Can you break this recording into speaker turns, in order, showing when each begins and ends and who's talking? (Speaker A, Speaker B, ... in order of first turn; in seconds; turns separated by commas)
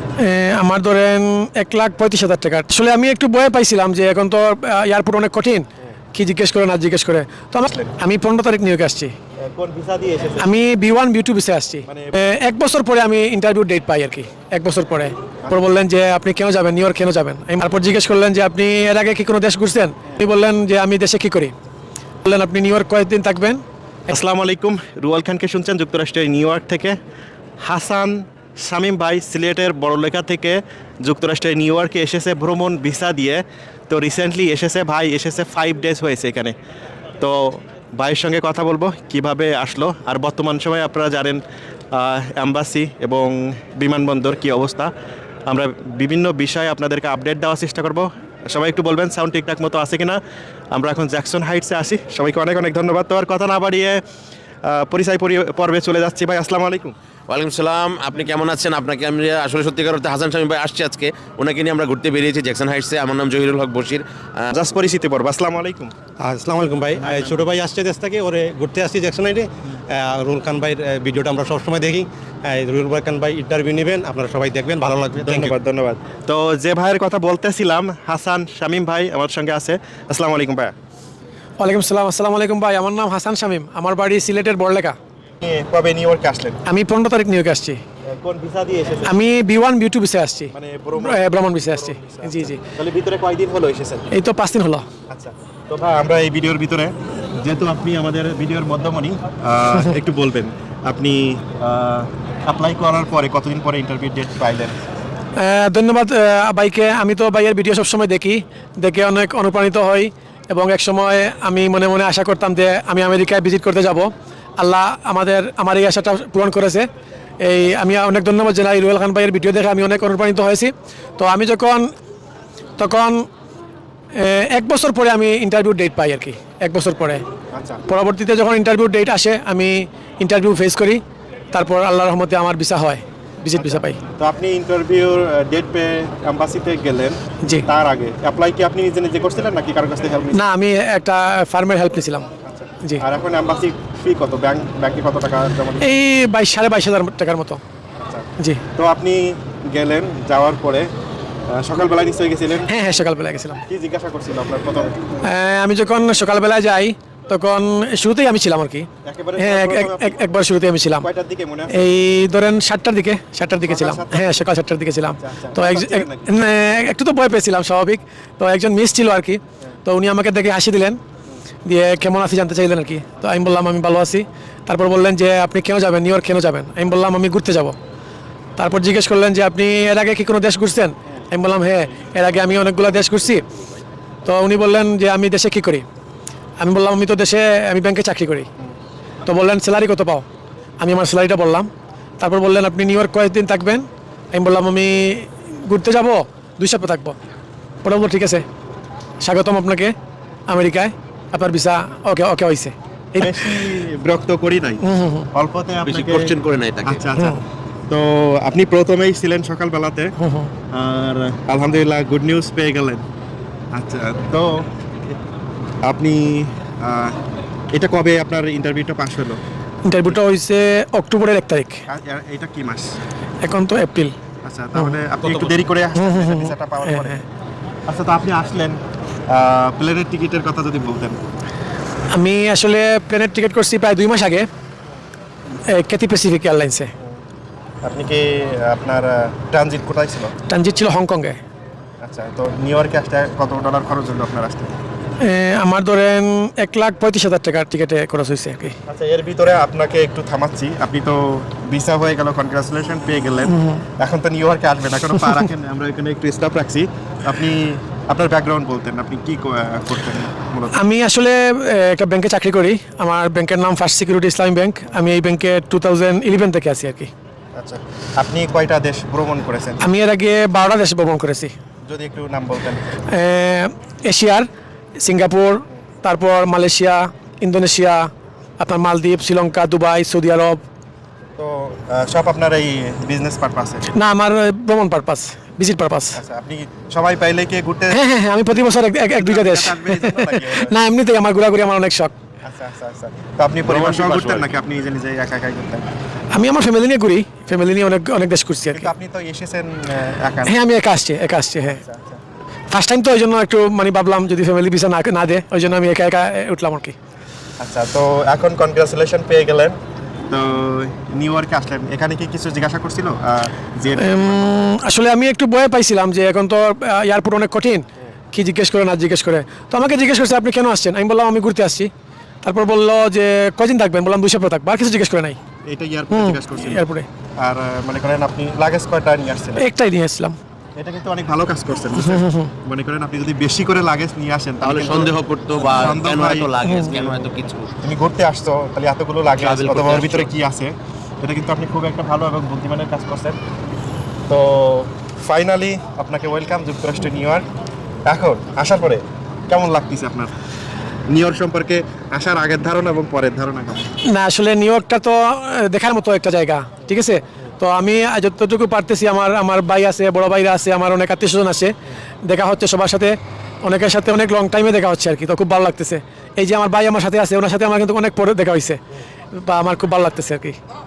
Speaker A: 0.2-9.1, Speaker B: 7.7-7.9, Speaker B: 9.5-10.5, Speaker A: 10.4-21.5, Speaker B: 11.9-12.2, Speaker A: 22.2-23.6, Speaker B: 24.1-27.0, Speaker B: 27.6-36.5, Speaker B: 37.2-41.4, Speaker B: 41.9-44.9, Speaker B: 45.5-50.2, Speaker B: 50.7-54.0, Speaker B: 54.6-56.9, Speaker C: 57.3-64.5, Speaker B: 64.5-65.9, Speaker D: 66.2-75.5, Speaker B: 75.2-80.7, Speaker A: 81.6-85.0, Speaker B: 85.4-86.6, Speaker A: 86.7-87.8, Speaker B: 88.1-89.2, Speaker A: 89.0-92.6, Speaker B: 90.5-94.1, Speaker A: 94.1-94.8, Speaker B: 95.1-104.8, Speaker A: 105.4-116.9, Speaker A: 117.4-121.9, Speaker A: 122.8-123.2, Speaker A: 124.2-127.2, Speaker B: 127.5-127.8, Speaker A: 127.9-131.0, Speaker A: 131.5-134.0, Speaker B: 133.6-140.4, Speaker A: 140.3-142.3, Speaker B: 142.4-145.9, Speaker A: 145.8-147.6, Speaker B: 148.1-150.9, Speaker B: 151.5-152.7, Speaker A: 152.7-153.6, Speaker B: 153.7-155.0, Speaker A: 155.2-161.1, Speaker B: 159.0-160.4, Speaker B: 161.0-161.9, Speaker A: 161.7-171.0, Speaker B: 163.6-164.5, Speaker B: 165.2-166.4, Speaker A: 171.7-177.8, Speaker A: 178.6-183.4, Speaker A: 184.2-185.8, Speaker A: 186.6-188.5, Speaker A: 189.2-190.2, Speaker A: 190.8-191.7, Speaker A: 192.2-197.2, Speaker A: 197.8-198.4, Speaker A: 199.2-199.9, Speaker A: 200.5-203.7, Speaker B: 203.2-210.2, Speaker A: 204.8-205.3, Speaker C: 205.8-207.0, Speaker A: 210.2-210.5, Speaker B: 210.7-213.0, Speaker B: 213.7-214.7, Speaker B: 215.8-217.2, Speaker B: 217.7-219.4, Speaker A: 219.9-221.8, Speaker B: 221.9-223.0, Speaker A: 223.4-224.1, Speaker B: 224.4-227.2, Speaker A: 225.9-227.2, Speaker B: 227.9-231.2, Speaker A: 232.1-234.5, Speaker A: 235.7-236.9, Speaker B: 237.8-240.3, Speaker A: 240.5-241.4, Speaker B: 242.0-244.7, Speaker A: 245.2-248.7, Speaker B: 248.9-260.8, Speaker A: 253.5-253.8, Speaker A: 260.7-267.1, Speaker B: 267.6-269.9, Speaker A: 269.8-271.5, Speaker B: 271.9-273.0, Speaker A: 273.1-274.5, Speaker A: 275.0-280.6, Speaker B: 281.4-283.9, Speaker A: 283.9-286.2, Speaker B: 286.1-288.0, Speaker A: 287.9-292.1, Speaker B: 289.1-290.8, Speaker B: 292.4-295.8, Speaker C: 293.6-294.6, Speaker A: 296.3-298.9, Speaker B: 298.7-300.6, Speaker A: 300.4-301.8, Speaker B: 301.6-302.2, Speaker A: 302.7-306.9, Speaker B: 307.6-309.8, Speaker B: 310.3-314.5, Speaker A: 314.0-321.9, Speaker A: 322.4-325.4, Speaker B: 325.7-326.8, Speaker A: 326.1-327.1, Speaker B: 327.4-329.6, Speaker A: 329.6-330.4, Speaker B: 330.8-343.4, Speaker A: 332.0-332.5, Speaker C: 334.6-337.7, Speaker A: 336.6-337.0, Speaker C: 339.4-340.3, Speaker B: 344.3-347.4, Speaker B: 348.1-350.3, Speaker B: 351.1-353.9, Speaker A: 354.1-361.7, Speaker A: 362.2-368.8, Speaker A: 369.3-370.6